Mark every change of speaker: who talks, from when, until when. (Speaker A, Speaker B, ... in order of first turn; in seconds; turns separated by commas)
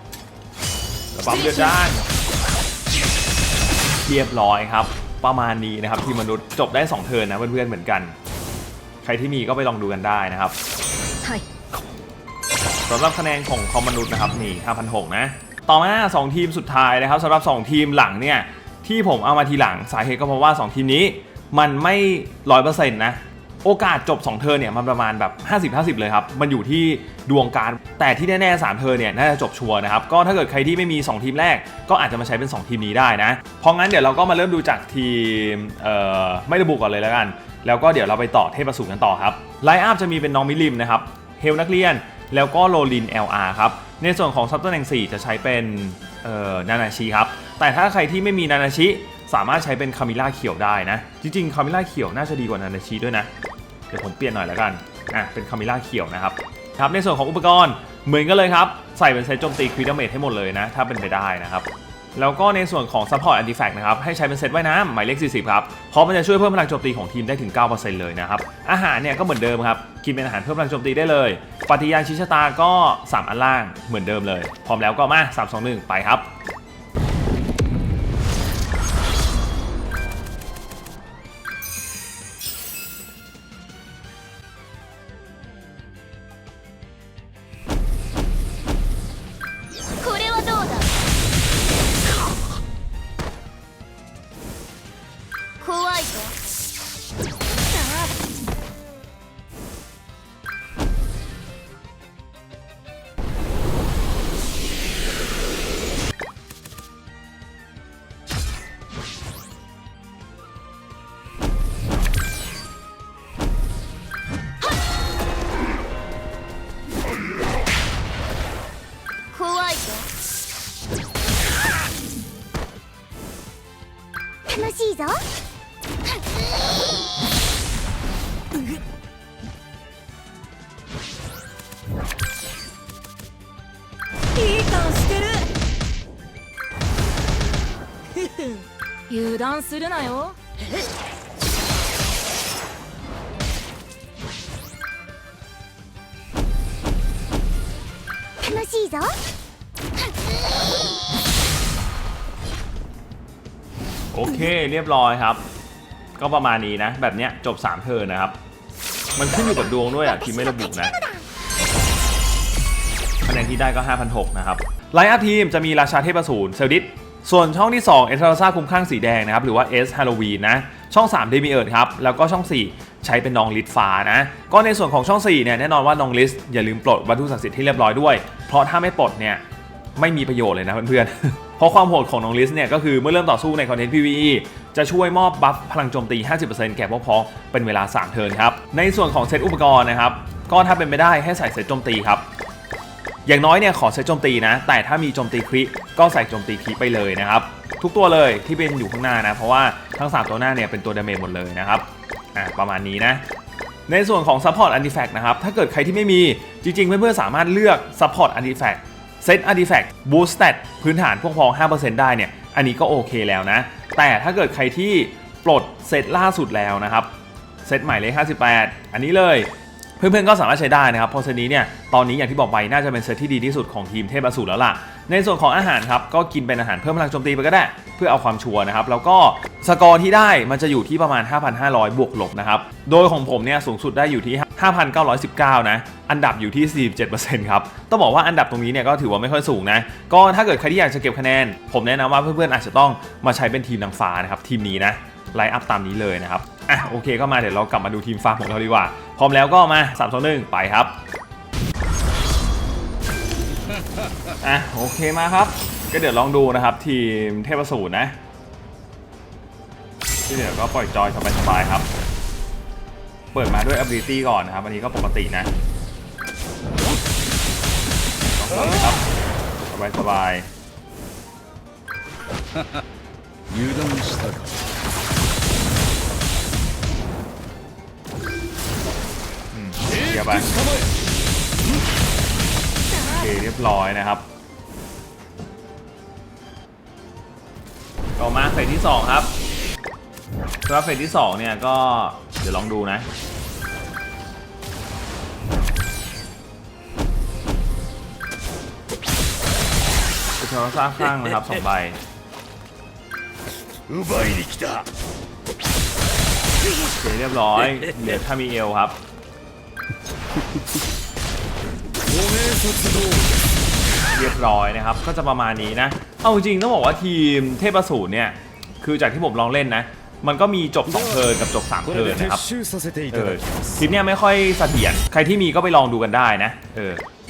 Speaker A: 1.1-2.1, Speaker A: 4.0-8.1, Speaker A: 9.0-10.6, Speaker A: 12.9-53.3, Speaker A: 53.9-76.3, Speaker B: 90.0-90.9, Speaker B: 95.6-96.3, Speaker B: 97.7-98.1, Speaker B: 119.3-120.1, Speaker C: 119.4-119.7, Speaker C: 124.5-125.2, Speaker B: 124.6-125.1, Speaker D: 134.3-135.4, Speaker D: 139.1-140.3, Speaker B: 148.5-149.2, Speaker A: 154.1-155.4, Speaker A: 156.2-158.3, Speaker A: 159.1-161.1, Speaker A: 163.2-179.4, Speaker A: 179.9-192.3, Speaker A: 193.2-203.2, Speaker A: 203.9-217.1, Speaker A: 217.6-251.0, Speaker A: 254.4-258.2, Speaker A: 260.2-261.9, Speaker A: 263.3-265.5, Speaker A: 268.3-269.0, Speaker A: 269.7-270.5, Speaker C: 273.5-274.4, Speaker A: 279.5-280.5, Speaker A: 282.9-284.2, Speaker A: 288.2-289.4, Speaker A: 290.6-293.1, Speaker A: 300.4-302.0, Speaker C: 304.0-304.8, Speaker A: 306.9-309.0, Speaker C: 312.2-313.2, Speaker A: 314.1-322.5, Speaker C: 322.6-323.1, Speaker A: 323.1-327.0